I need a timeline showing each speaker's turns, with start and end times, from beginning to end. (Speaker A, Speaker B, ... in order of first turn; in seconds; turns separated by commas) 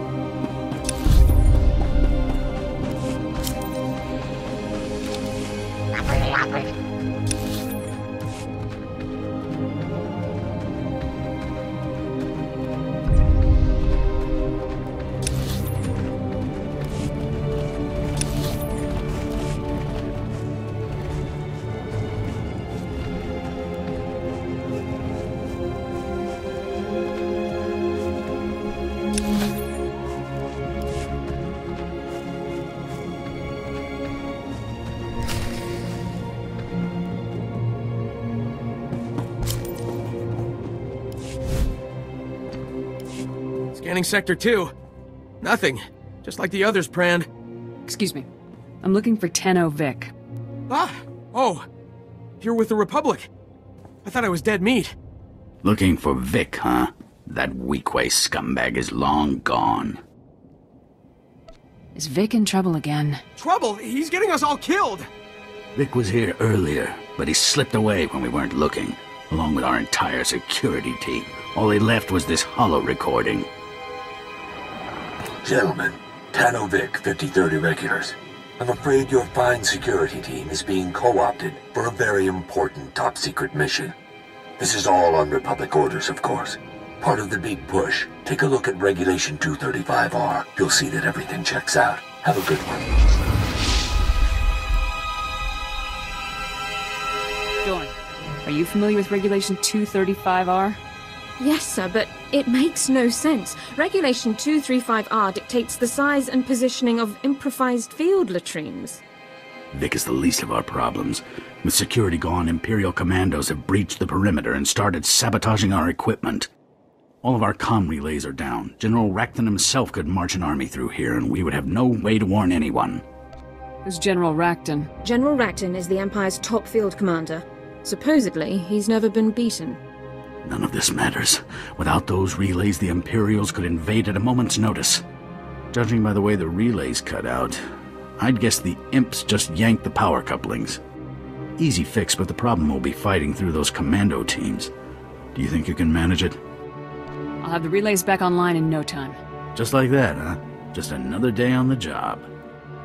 Speaker A: 43.7-44.7, Speaker A: 45.4-47.3, Speaker B: 47.9-48.3, Speaker B: 48.8-50.1, Speaker A: 50.7-51.6, Speaker A: 52.4-53.3, Speaker A: 54.0-54.9, Speaker C: 55.6-60.0, Speaker B: 61.9-63.2, Speaker A: 63.4-65.1, Speaker C: 65.8-73.5, Speaker D: 75.4-83.9, Speaker D: 84.6-93.0, Speaker B: 97.6-100.8, Speaker E: 101.4-109.0, Speaker C: 109.7-116.5, Speaker C: 117.2-123.0, Speaker B: 123.8-124.9, Speaker E: 125.0-129.8, Speaker C: 130.4-135.0, Speaker C: 135.7-137.6, Speaker C: 138.2-140.8, Speaker C: 141.6-144.7, Speaker C: 145.3-146.4, Speaker B: 147.4-149.2, Speaker C: 149.5-152.3